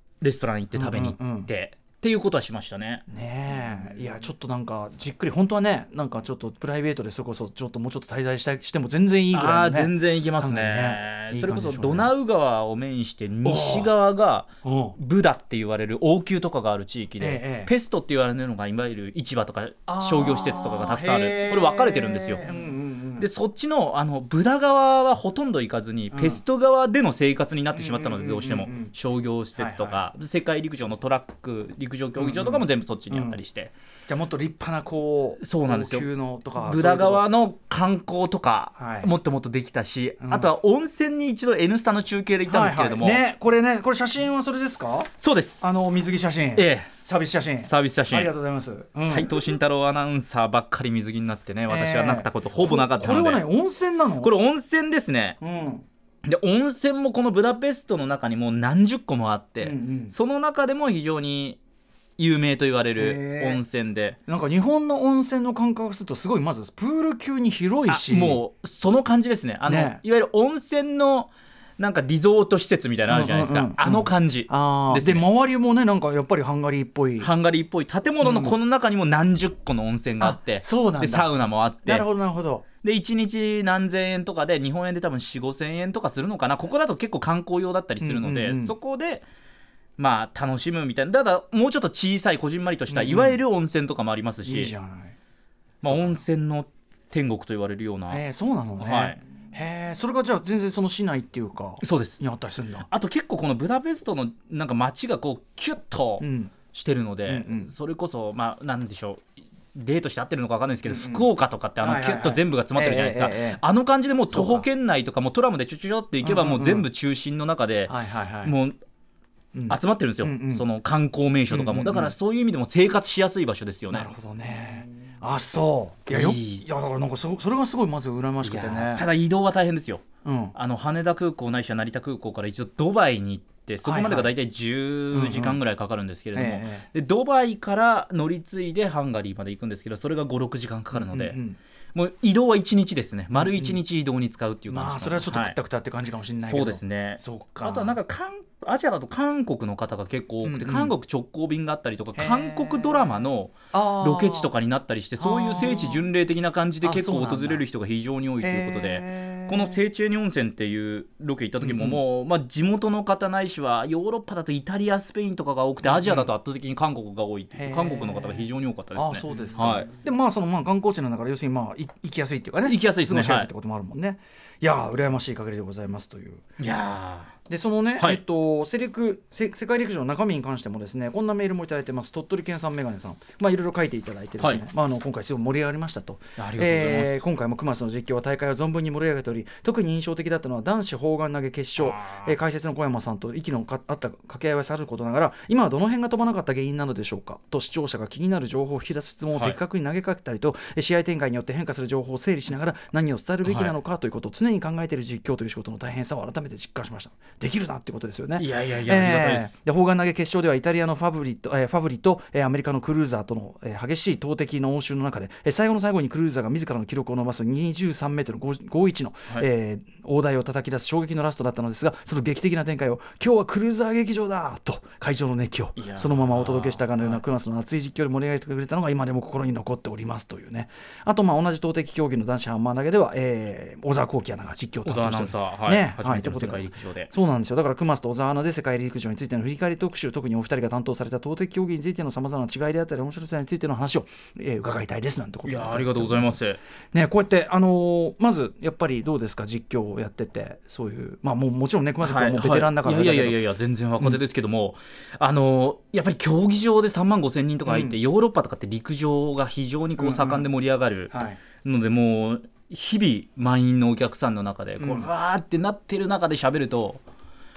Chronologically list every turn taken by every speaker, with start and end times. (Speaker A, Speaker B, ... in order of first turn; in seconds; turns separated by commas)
Speaker A: 0.2-3.0, Speaker B: 0.7-1.5, Speaker B: 3.1-12.1, Speaker A: 9.3-22.4, Speaker B: 13.4-13.9, Speaker B: 14.6-15.0, Speaker B: 17.2-17.7, Speaker B: 19.9-23.3, Speaker A: 23.2-33.7, Speaker B: 26.1-26.4, Speaker B: 27.7-28.9, Speaker B: 29.5-30.0, Speaker B: 32.2-33.4, Speaker B: 34.1-37.2, Speaker A: 35.4-43.2, Speaker B: 38.8-39.1, Speaker B: 40.2-40.5, Speaker B: 42.5-49.3, Speaker A: 45.2-45.6, Speaker A: 46.5-46.9, Speaker A: 47.6-48.3, Speaker A: 49.0-53.4, Speaker B: 51.7-54.3, Speaker A: 54.2-55.4, Speaker B: 55.4-55.9, Speaker A: 56.2-61.6, Speaker B: 59.6-60.1, Speaker A: 62.2-64.2, Speaker B: 63.0-63.6, Speaker B: 64.3-68.4, Speaker A: 67.9-75.2, Speaker B: 69.7-70.0, Speaker B: 73.1-77.3, Speaker A: 77.2-82.1, Speaker B: 78.2-78.5, Speaker B: 80.2-81.3, Speaker B: 81.8-82.6, Speaker A: 82.8-89.2, Speaker B: 88.0-88.7, Speaker A: 90.0-94.7, Speaker B: 92.9-93.4, Speaker B: 94.4-95.1, Speaker A: 95.8-98.2, Speaker B: 95.8-96.2, Speaker B: 98.1-102.9, Speaker A: 98.8-99.2, Speaker A: 101.8-102.2, Speaker A: 102.8-109.2, Speaker B: 106.2-106.5, Speaker B: 107.2-107.7, Speaker A: 109.7-118.8, Speaker B: 110.9-111.3, Speaker B: 111.8-113.6, Speaker B: 114.3-114.7, Speaker B: 116.2-116.8, Speaker B: 117.9-118.5, Speaker B: 119.5-120.6, Speaker A: 119.7-124.1, Speaker B: 121.5-122.1, Speaker B: 123.9-129.1, Speaker A: 126.1-126.6, Speaker A: 128.4-141.4, Speaker B: 130.2-130.5, Speaker B: 133.8-134.3, Speaker B: 135.1-135.6, Speaker B: 136.3-136.8, Speaker B: 140.9-141.6, Speaker A: 141.9-145.6, Speaker B: 143.3-143.8, Speaker B: 144.7-148.0, Speaker A: 146.4-169.9, Speaker B: 150.4-150.9, Speaker B: 152.2-153.2, Speaker B: 153.7-154.5, Speaker B: 155.2-156.0, Speaker B: 156.8-157.6, Speaker B: 158.4-159.8, Speaker B: 161.6-162.0, Speaker B: 165.8-166.3, Speaker B: 167.5-176.4, Speaker A: 172.6-173.5, Speaker A: 176.6-177.3, Speaker B: 177.5-246.4, Speaker A: 186.4-187.1, Speaker A: 191.8-192.3, Speaker A: 203.4-203.8, Speaker A: 208.4-209.5, Speaker A: 225.8-227.2, Speaker A: 234.8-237.1, Speaker A: 245.4-246.6, Speaker B: 246.9-253.4, Speaker A: 252.0-267.0, Speaker B: 257.6-258.0, Speaker B: 260.0-260.5, Speaker B: 261.1-261.4, Speaker B: 264.8-265.1